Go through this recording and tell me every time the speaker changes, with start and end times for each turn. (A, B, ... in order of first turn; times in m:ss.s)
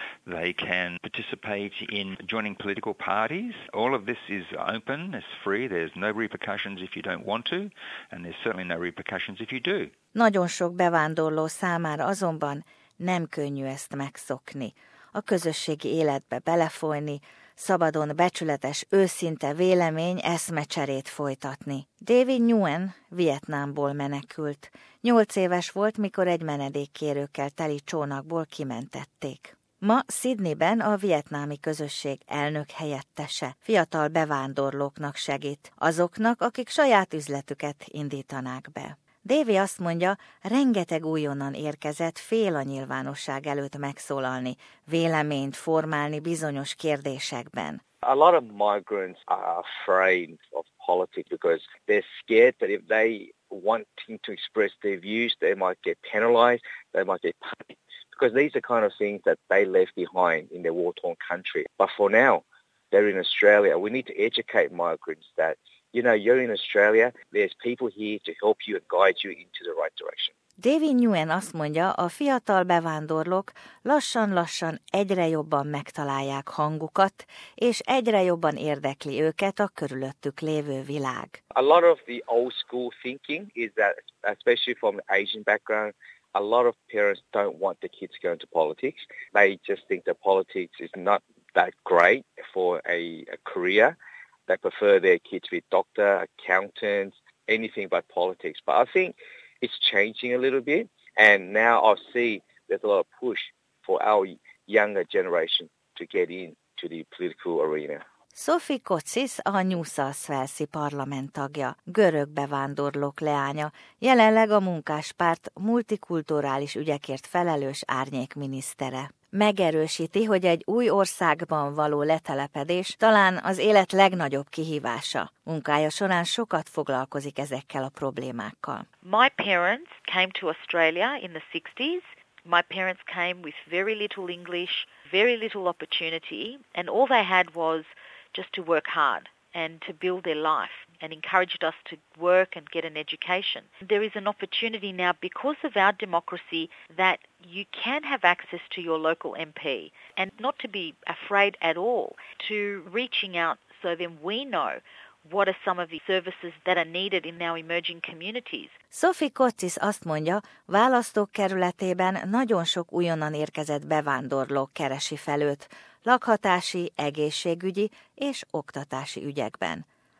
0:00.2-0:09.9 A
0:10.1-0:47.8 B
0:48.0-1:10.3 C
1:10.6-1:21.4 B
1:21.5-1:34.0 C
1:34.5-1:48.0 C
1:48.4-2:08.9 B
2:09.0-2:38.8 D
2:38.9-2:49.8 B